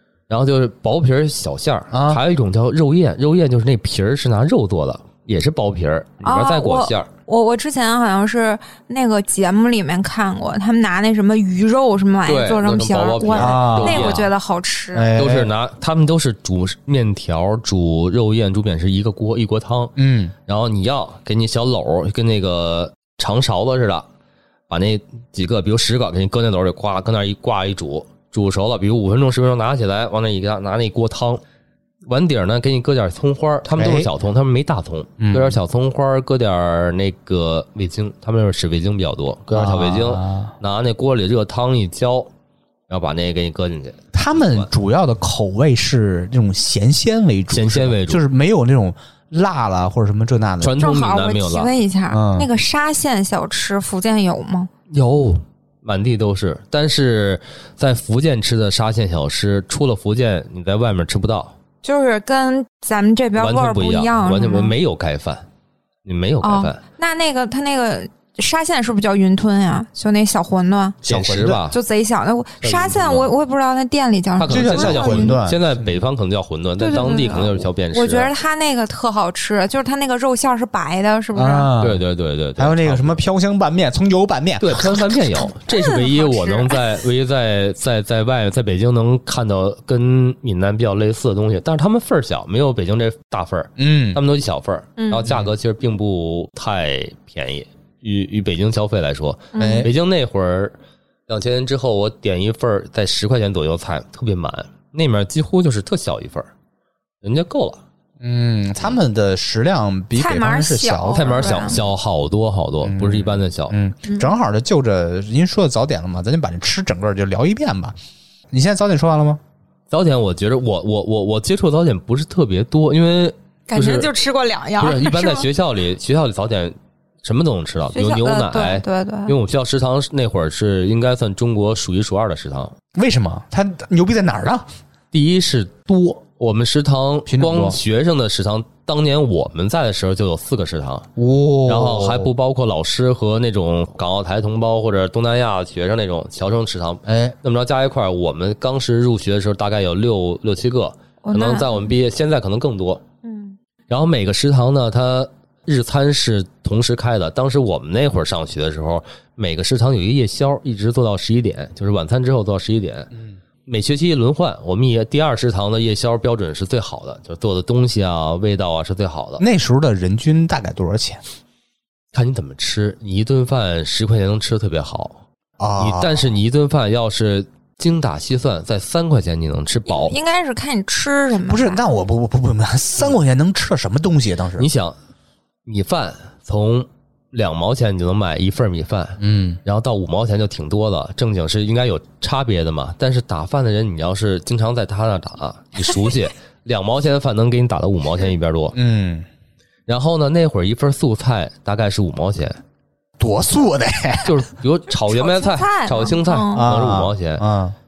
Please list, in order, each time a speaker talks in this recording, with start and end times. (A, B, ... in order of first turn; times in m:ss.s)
0:00.3-0:07.1 A
0:01.9-0:02.2 B
0:06.2-0:15.1 C
0:12.3-0:14.3 A
0:13.3-0:14.2 B
0:14.9-0:15.5 B
0:15.2-0:19.9 A
0:20.0-0:20.3 B
0:20.5-0:24.1 A
0:24.7-0:31.4 A
0:32.1-0:42.3 A
0:33.8-0:34.1 B
0:35.2-0:35.6 B
0:39.5-0:40.5 B
0:42.9-0:44.7 A
0:44.1-0:50.8 B
0:47.5-0:48.2 A
0:50.6-0:51.7 A
0:50.8-0:54.7 C
0:52.1-0:52.5 B
0:54.9-1:01.5 A
1:01.8-1:04.8 C
1:03.4-1:05.4 A
1:06.0-1:06.8 A
1:06.4-1:11.0 C
1:11.0-1:11.8 A
1:11.0-1:11.6 B
1:11.7-1:15.4 C
1:12.6-1:13.3 A
1:14.4-1:18.3 A
1:14.5-1:16.0 B
1:16.8-1:21.7 C
1:21.3-1:22.0 B
1:21.8-1:23.2 A
1:22.6-1:25.0 B
1:24.6-1:40.8 A
1:25.7-1:26.8 C
1:33.8-1:34.2 B
1:35.0-1:35.3 C
1:35.3-1:35.5 B
1:39.5-1:39.9 C
1:39.6-1:39.9 B
1:41.3-1:46.5 A
1:47.2-1:47.8 A
1:48.2-1:51.7 B
1:50.2-1:51.8 C
1:51.1-1:53.8 A
1:52.8-1:58.0 B
1:58.5-1:59.4 B
1:59.9-2:04.1 A
2:03.7-2:05.5 C
2:04.8-2:12.7 A
2:07.9-2:09.4 C
2:13.0-2:14.7 B
2:15.1-2:21.1 A
2:17.3-2:17.8 B
2:21.2-2:22.3 B
2:21.7-2:33.0 A
2:27.1-2:27.4 B
2:31.2-2:31.9 C
2:33.2-2:33.6 C
2:33.9-2:43.1 A
2:43.7-2:49.4 A
2:49.4-2:51.2 B
2:52.1-2:55.2 A
2:55.6-2:56.3 B
2:55.8-3:00.2 A
2:59.9-3:01.8 C
3:01.5-3:04.7 B
3:04.6-3:05.0 A
3:05.6-3:18.8 A
3:09.2-3:09.6 B
3:18.7-3:19.3 B
3:19.9-3:22.6 A
3:23.2-3:24.4 B
3:24.2-3:27.4 A
3:24.9-3:26.7 C
3:26.5-3:27.8 B